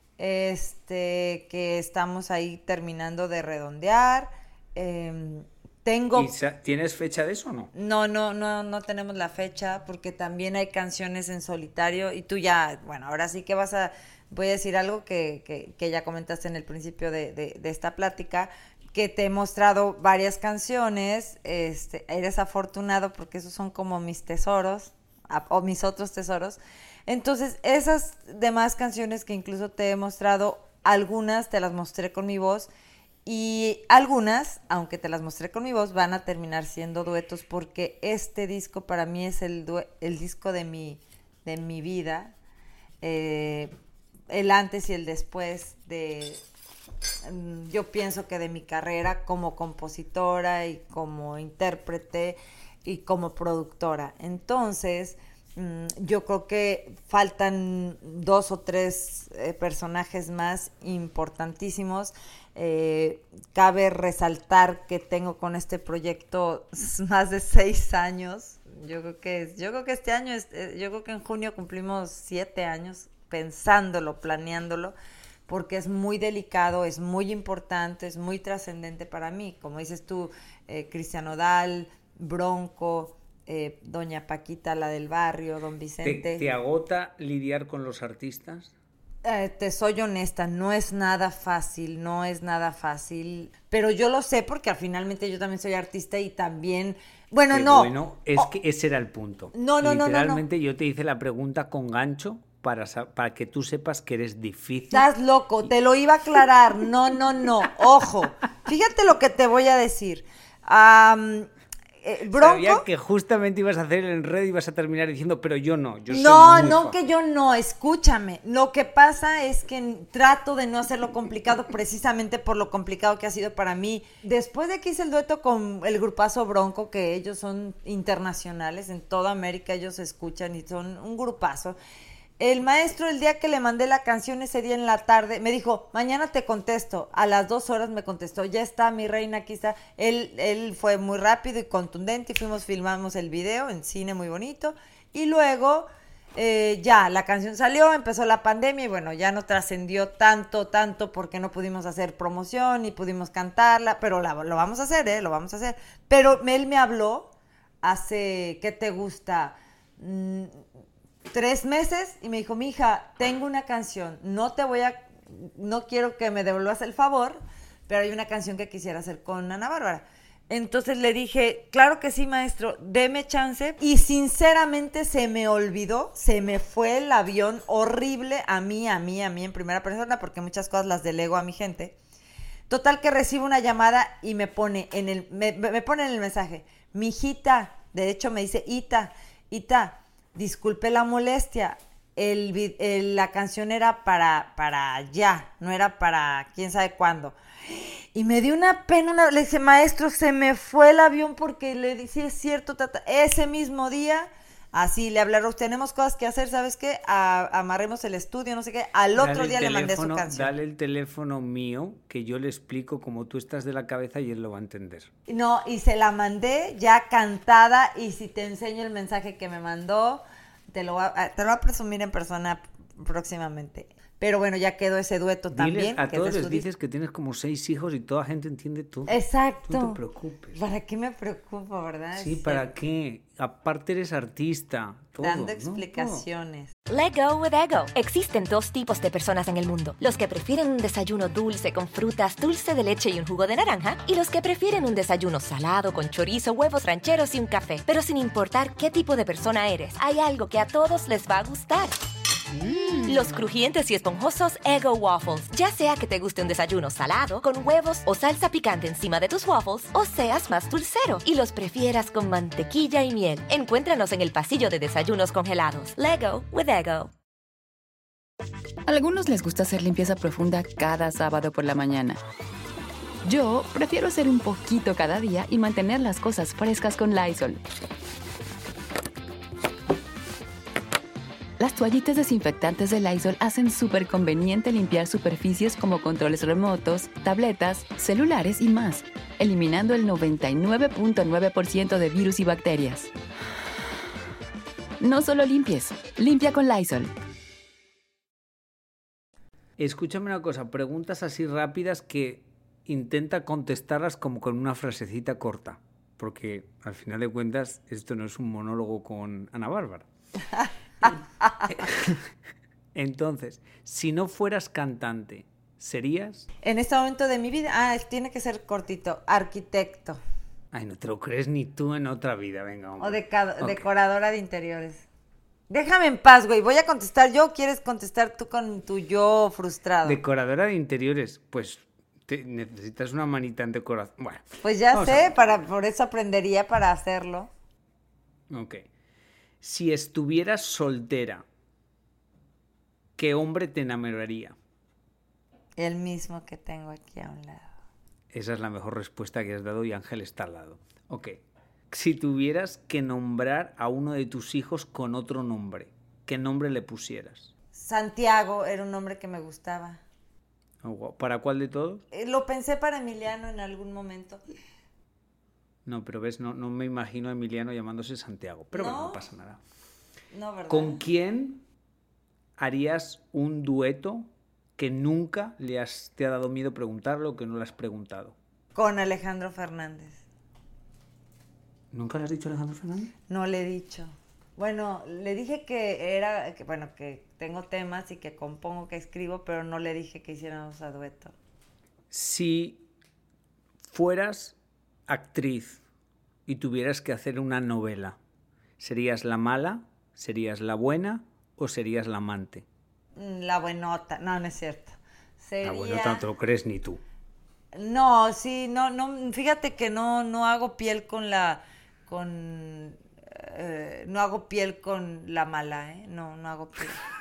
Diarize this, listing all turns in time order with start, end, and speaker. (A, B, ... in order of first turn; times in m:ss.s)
0:00.2-0:06.3 A
0:06.1-0:07.7 B
0:07.7-0:32.7 A
0:33.2-0:42.3 A
0:43.0-0:43.7 A
0:44.3-0:46.4 A
0:47.2-1:14.9 A
1:15.5-1:26.4 A
1:26.0-1:28.7 B
1:29.2-1:38.5 A
1:37.5-1:45.1 B
1:39.5-1:40.4 A
1:44.9-1:52.8 A
1:52.3-1:57.0 B
1:56.1-2:11.8 A
2:12.4-2:37.3 A
2:37.8-2:40.6 A
2:41.3-3:02.0 A
3:02.7-3:30.5 A
3:29.2-3:35.1 B
3:35.3-3:46.6 A
3:45.5-3:50.6 B
3:49.1-3:50.0 A
3:50.5-3:52.6 A
3:52.1-3:56.2 B
3:55.2-3:56.7 A
3:56.9-4:11.9 C
4:13.0-4:27.1 C
4:28.9-4:32.2 D
4:33.2-4:37.6 D
4:41.6-4:53.1 D
4:55.0-4:57.1 D
4:59.8-5:10.0 B
5:10.6-5:11.7 A
5:11.0-5:12.3 B
5:12.9-5:16.5 B
5:16.6-5:20.2 A
5:20.7-5:23.9 B
5:23.0-5:25.0 A
5:25.7-5:30.2 A
5:30.0-5:35.6 B
5:34.6-5:37.5 A
5:38.5-5:38.8 B
5:39.6-5:41.4 B
5:43.2-5:44.6 B
5:45.8-5:47.7 A
5:48.3-5:51.4 B
5:51.9-5:57.5 B
5:57.7-6:00.0 A
6:00.8-6:02.0 B
6:02.1-6:04.4 A
6:05.8-6:09.6 B
6:08.7-6:09.2 A
6:10.3-6:11.0 A
6:10.7-6:11.6 B
6:12.6-6:18.4 B
6:18.7-6:20.2 A
6:21.9-6:23.1 B
6:23.3-6:31.3 A
6:32.1-6:32.8 B
6:33.9-6:35.8 B
6:36.5-6:38.2 B
6:38.8-6:42.6 B
6:43.1-6:46.2 A
6:45.6-6:47.0 B
6:47.7-6:57.0 A